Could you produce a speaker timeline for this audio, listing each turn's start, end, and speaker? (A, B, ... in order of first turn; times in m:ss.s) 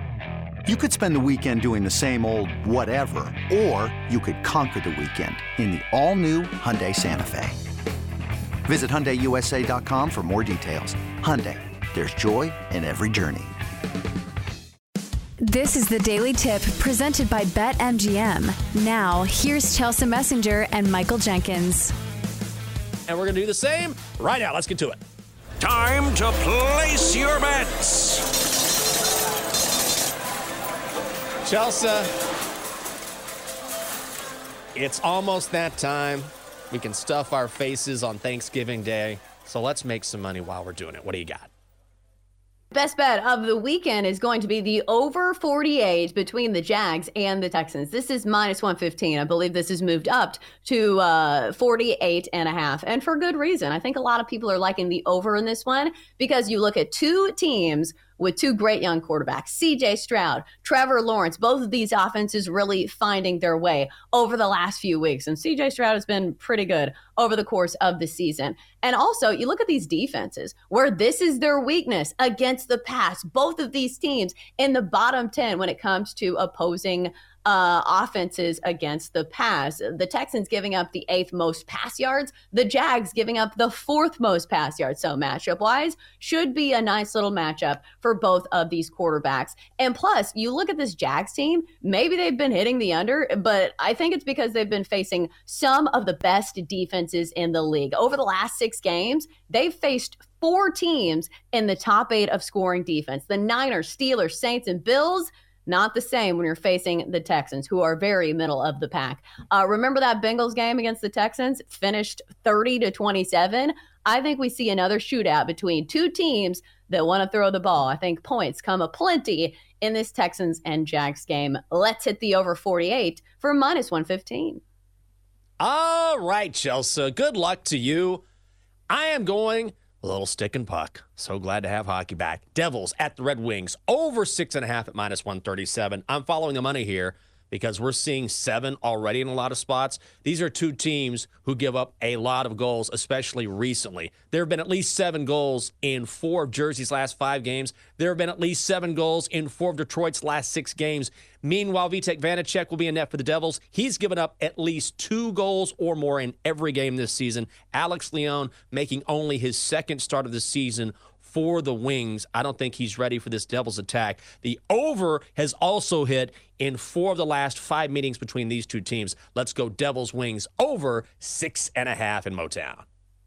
0:00.7-0:07.6 A
0:08.7-0:13.5 A
0:15.4-0:21.9 B
0:23.1-0:25.0 C
0:25.6-0:28.2 D
0:31.4-0:32.1 C
0:34.8-0:41.5 C
0:42.7-2:04.6 E
2:05.6-2:08.2 C
2:08.9-2:52.8 C